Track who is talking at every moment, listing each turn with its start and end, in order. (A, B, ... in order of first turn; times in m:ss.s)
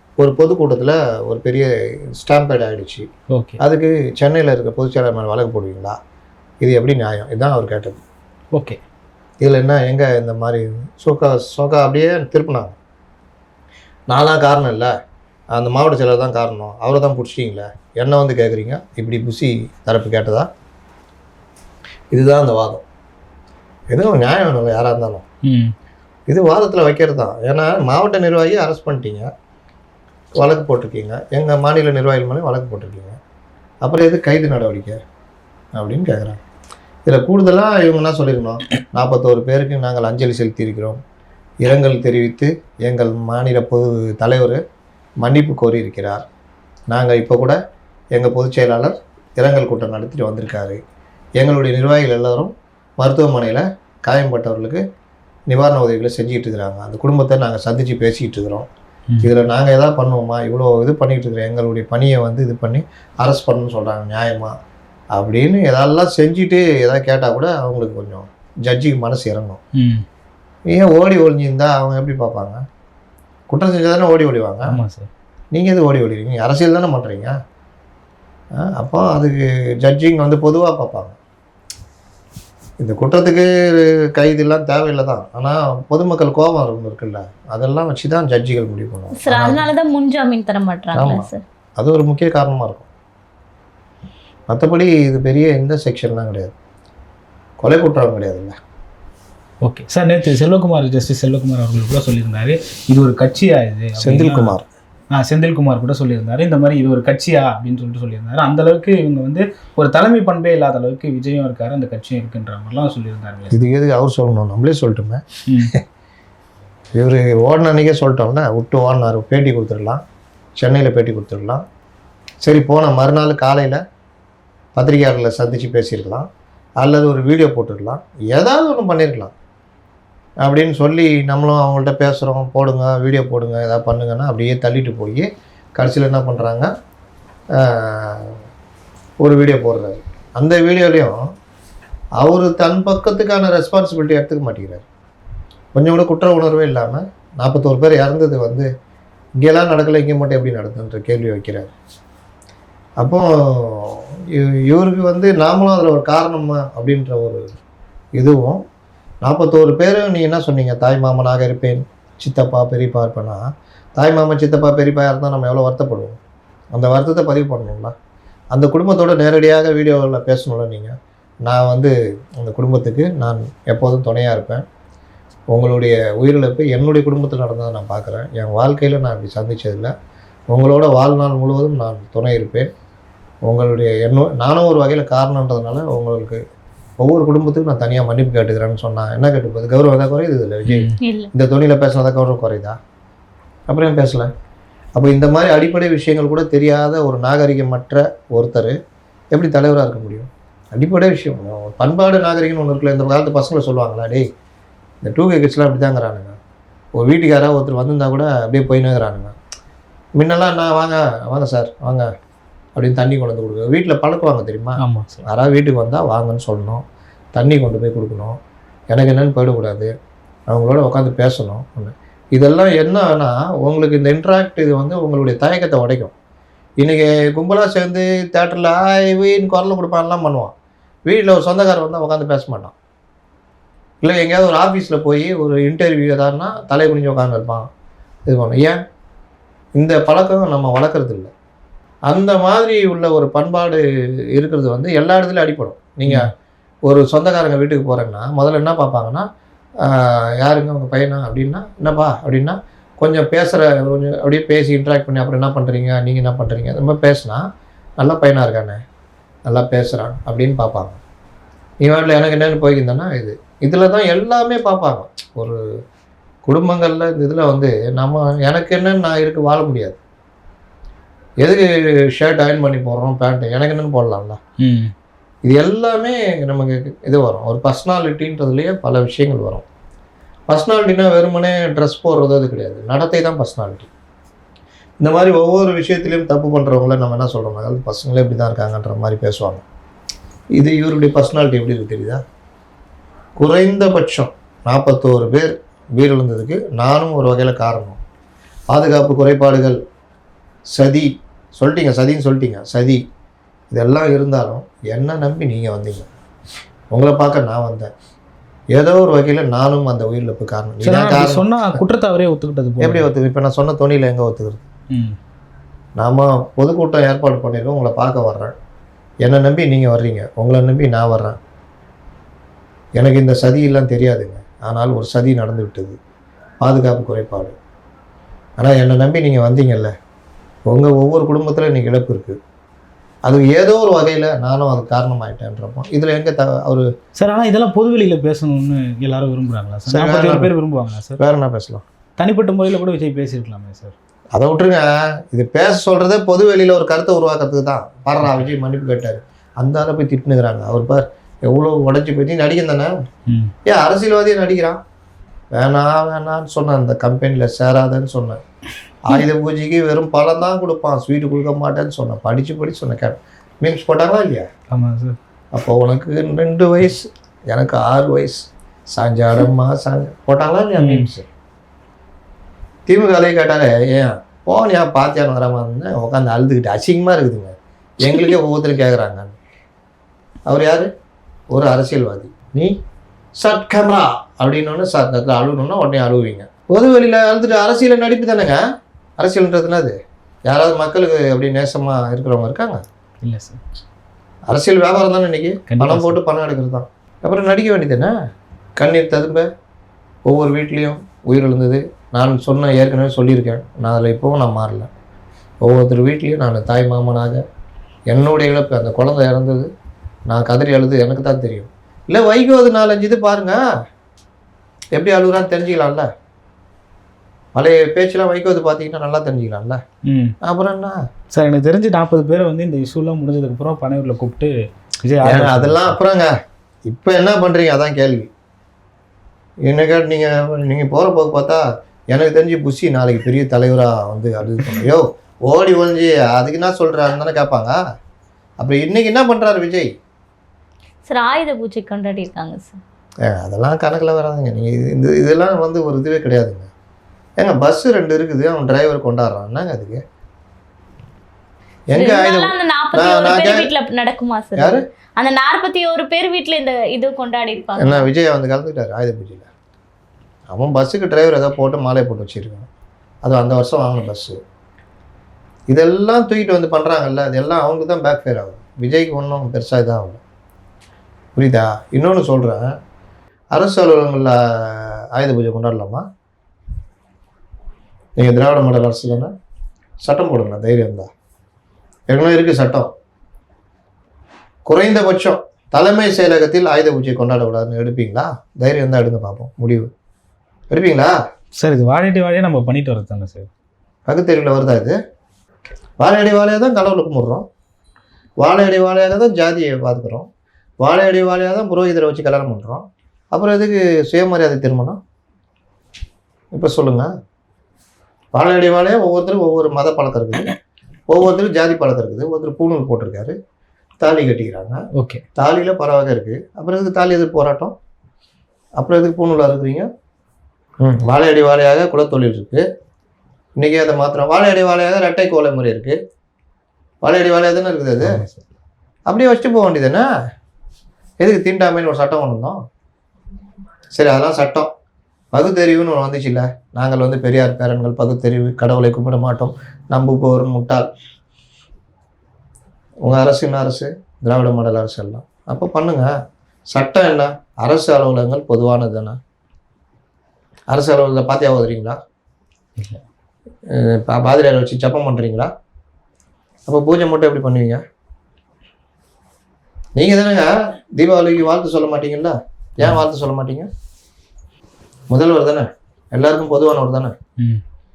0:00.2-0:03.1 A
0:03.3-0:03.6 B
0:03.6-0:06.0 A
0:06.6-0:08.0 A
0:08.5-0:08.8 B
0:09.4-0:12.8 A
0:14.1-0:14.9 A
0:15.5-0:20.5 A
0:22.1-0:22.8 A
0:23.9-0:25.2 A
0:25.4-0:25.7 B
0:26.3-0:29.3 A
0:30.4-0:33.2 A
0:33.8-0:35.0 A
0:35.7-0:36.4 A
0:37.0-0:41.0 A
0:41.6-0:44.6 A
0:45.2-0:46.2 A
0:46.9-0:47.6 A
0:48.1-0:50.8 A
0:51.4-0:54.8 A
0:55.5-0:58.7 A
0:59.2-1:04.5 A
1:05.1-1:09.6 A
1:09.7-1:10.0 B
1:10.7-1:12.6 A
1:13.5-1:14.8 A
1:14.7-1:15.1 B
1:15.5-1:17.3 A
1:18.6-1:21.2 A
1:22.8-1:29.6 A
1:29.2-1:31.4 C
1:30.9-1:31.2 A
1:31.8-1:32.9 A
1:34.5-1:36.5 A
1:37.6-1:38.5 A
1:39.6-1:44.6 B
1:44.0-1:44.6 A
1:45.1-1:53.5 B
1:53.5-1:55.8 A
1:55.4-1:55.7 B
1:56.9-2:00.0 A
2:00.6-2:01.6 A
2:02.4-2:03.8 A
2:04.8-2:06.3 A
2:06.8-2:09.3 A
2:10.4-2:16.7 A
2:17.5-2:18.4 A
2:19.2-2:21.2 A
2:22.2-2:24.8 A
2:25.7-2:28.7 A
2:29.4-2:31.7 A
2:33.0-2:37.4 A
2:38.2-2:38.6 A
2:39.2-2:43.4 A
2:44.0-2:46.2 A
2:46.7-2:47.9 A
2:48.5-2:54.6 A
2:55.5-2:59.9 A
3:00.5-3:02.7 A
3:03.4-3:06.4 A
3:07.0-3:12.8 A
3:10.7-3:11.0 B
3:11.0-3:11.3 C
3:13.7-3:14.3 A
3:14.9-3:18.8 A
3:19.3-3:24.3 A
3:25.0-3:26.4 A
3:26.9-3:29.3 A
3:30.2-3:32.1 A
3:32.7-3:38.4 A
3:34.8-3:35.2 B
3:38.9-3:39.9 A
3:40.5-3:46.1 A
3:46.8-3:50.5 A
3:51.0-3:52.7 A
3:54.0-3:57.7 A
3:58.3-3:58.8 A
3:59.8-4:01.3 A
4:02.1-4:03.8 A
4:04.3-4:06.3 A
4:06.8-4:09.2 A
4:09.8-4:17.4 A
4:18.0-4:18.8 A
4:19.4-4:21.0 A
4:21.8-4:25.6 A
4:26.4-4:30.0 A
4:31.4-4:34.4 A
4:34.6-4:34.9 B
4:35.4-4:39.6 A
4:40.5-4:43.9 A
4:45.0-4:49.6 A
4:50.6-4:52.2 A
4:53.4-4:58.0 A
4:58.7-4:59.8 A
5:00.7-5:03.0 A
5:03.7-5:06.1 A
5:06.9-5:07.9 A
5:08.7-5:11.7 A
5:10.8-5:13.1 B
5:12.8-5:14.6 A
5:14.9-5:15.2 B
5:16.0-5:18.5 A
5:19.2-5:21.4 A
5:23.0-5:26.0 A
5:26.6-5:27.6 A
5:28.6-5:29.9 A
5:30.7-5:32.4 A
5:33.2-5:36.9 A
5:37.1-5:41.2 B
5:39.9-5:40.5 A
5:41.2-5:41.8 A
5:42.2-5:43.9 B
5:44.3-5:52.9 A
5:53.3-5:53.5 B
5:53.6-5:54.8 A
5:55.5-5:58.4 A
5:59.0-6:04.5 A
6:04.7-6:05.2 B
6:05.5-6:11.2 A
6:10.8-6:11.1 B
6:12.9-6:19.3 A
6:20.4-6:20.9 A
6:21.5-6:22.8 A
6:23.4-6:28.6 A
6:29.2-6:32.8 A
6:33.2-6:33.6 B
6:34.5-6:38.1 A
6:35.7-6:36.2 B
6:38.8-6:39.5 A
6:40.2-6:44.9 A
6:45.6-6:47.4 A
6:48.1-6:49.7 A
6:50.3-6:53.7 A
6:54.9-6:56.1 A
6:57.5-6:59.8 A
7:00.0-7:00.3 B
7:00.4-7:01.0 A
7:01.3-7:06.0 B
7:05.2-7:06.3 A
7:06.8-7:08.3 A
7:09.6-7:17.8 A
7:18.6-7:19.9 A
7:21.0-7:22.8 C
7:23.2-7:26.7 A
7:27.4-7:30.0 A
7:31.9-7:33.7 A
7:31.9-7:38.1 C
7:34.6-7:34.8 A
7:37.8-7:39.5 A
7:40.5-7:42.7 A
7:43.2-7:44.4 A
7:45.7-7:50.2 A
7:51.4-7:52.7 A
7:53.5-7:56.0 A
7:58.2-7:59.3 A
8:00.0-8:01.1 A
8:02.1-8:02.9 A
8:04.6-8:09.9 A
8:10.7-8:11.1 A
8:11.6-8:13.5 B
8:14.1-8:14.9 A
8:16.0-8:17.4 A
8:18.4-8:20.3 A
8:20.8-8:25.0 A
8:26.5-8:27.1 A
8:28.3-8:30.6 A
8:31.1-8:33.4 A
8:34.0-8:34.8 A
8:34.9-8:35.2 B
8:35.4-8:37.8 A
8:38.8-8:39.9 A
8:40.8-8:42.6 A
8:43.6-8:46.0 A
8:47.0-8:48.2 A
8:48.0-8:48.4 B
8:49.1-8:50.1 A
8:51.2-8:52.6 A
8:53.9-8:54.7 A
8:55.3-9:00.9 A
9:03.0-9:06.1 A
9:06.7-9:09.2 A
9:10.7-9:12.0 A
9:12.8-9:13.0 B
9:13.7-9:15.5 A
9:16.7-9:17.8 A
9:20.0-9:23.7 A
9:25.1-9:27.1 A